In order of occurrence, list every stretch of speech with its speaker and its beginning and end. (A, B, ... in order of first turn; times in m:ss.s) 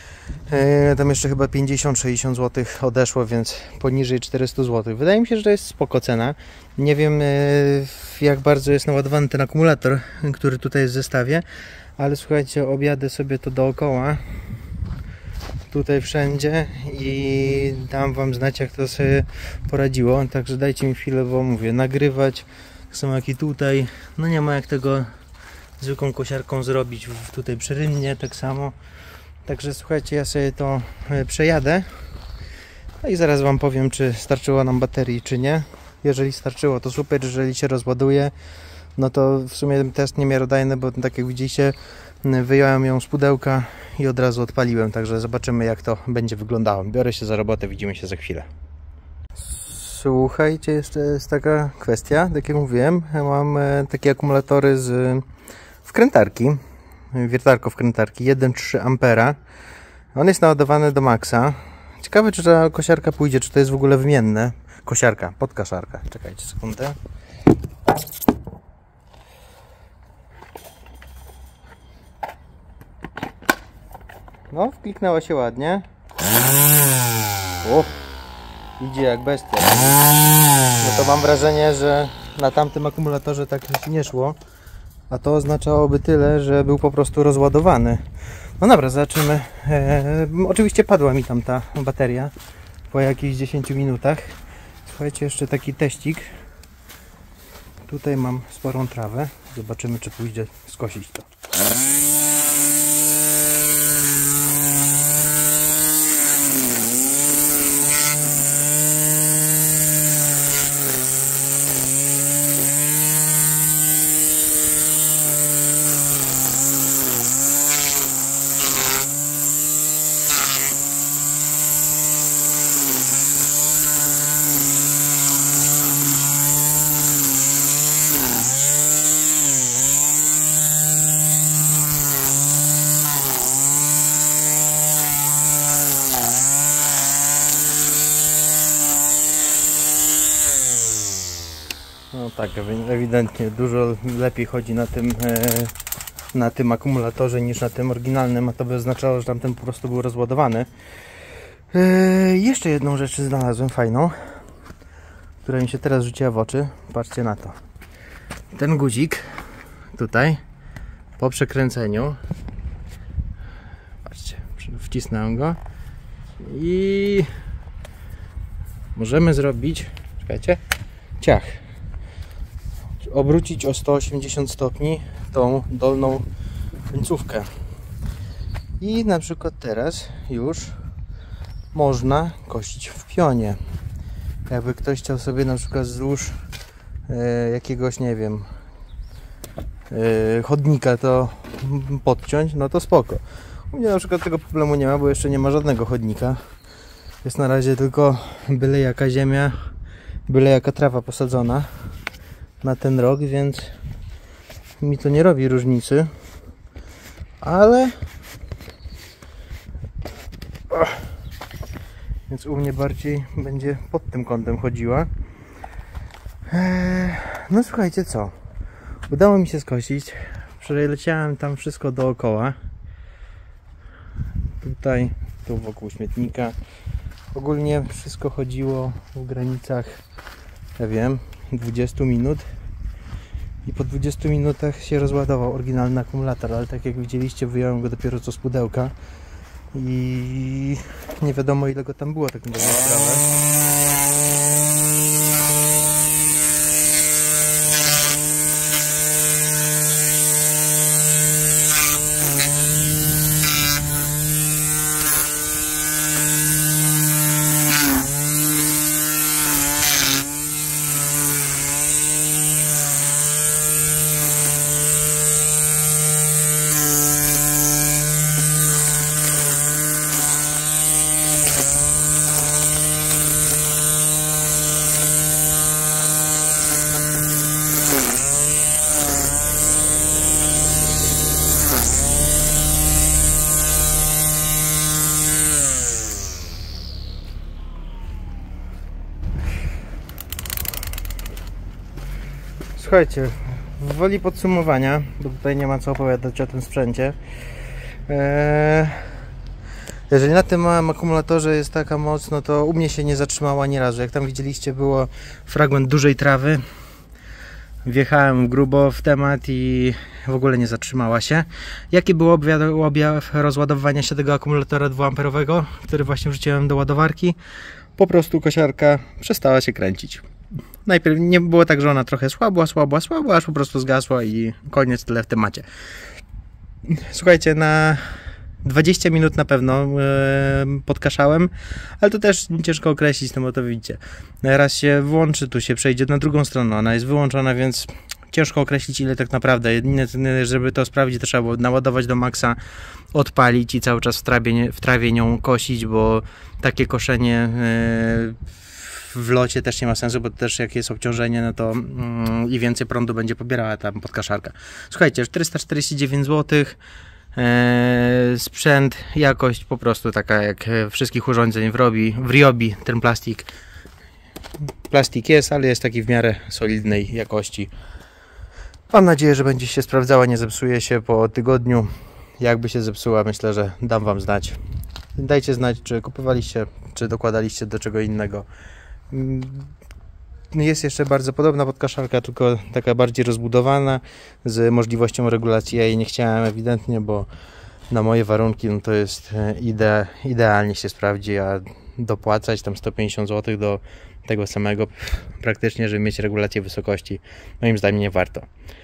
0:00.4-0:11.4 A
0:12.0-0:14.2 A
0:15.7-0:25.1 A
0:25.8-0:28.8 A
0:29.4-0:32.0 A
0:33.0-0:38.3 A
0:39.0-0:48.5 A
0:49.4-0:55.2 A
0:55.8-0:56.6 A
0:57.1-0:59.4 A
1:00.1-1:07.0 A
1:14.5-1:15.8 A
1:17.6-1:18.0 A
1:18.8-1:19.9 A
1:20.8-1:24.4 A
1:25.1-1:28.0 A
1:28.6-1:32.3 A
1:32.9-1:36.3 A
1:37.8-1:41.3 A
2:22.1-2:25.7 A
2:26.3-2:30.7 A
2:31.7-2:34.4 A
2:35.4-2:37.6 A
2:38.5-2:39.3 A
2:39.9-2:40.4 A
2:41.2-2:42.2 A
2:44.0-2:45.6 A
2:46.4-2:47.3 A
2:48.9-2:50.6 A
2:51.2-2:51.6 A
2:53.0-2:56.3 A
2:56.9-2:57.5 A
2:58.8-3:00.8 A
3:01.7-3:03.6 A
3:04.5-3:06.4 A
3:07.1-3:08.5 A
3:09.9-3:16.4 A
3:17.2-3:19.6 A
3:20.3-3:21.7 A
3:22.6-3:23.7 A
3:24.8-3:26.1 A
3:27.4-3:27.9 A
3:30.7-3:31.0 A
3:32.3-3:35.1 A
3:36.5-3:38.3 A
3:39.1-3:42.6 A
3:44.6-3:46.6 A
3:47.3-3:50.0 A
3:50.8-3:52.5 A
3:53.6-3:58.9 A
3:59.7-4:03.2 A
4:52.8-4:57.2 A
4:58.1-4:59.2 A
5:00.1-5:06.6 A
5:07.8-5:17.4 A
5:18.0-5:20.2 A
5:20.8-5:25.7 A
5:26.8-5:42.6 A
5:43.1-5:56.8 A
5:57.3-6:03.5 A
6:04.9-6:07.7 A
6:08.9-6:14.6 A
6:15.2-6:18.5 A
6:19.1-6:19.7 A
6:20.5-6:27.3 A
6:27.9-6:38.5 A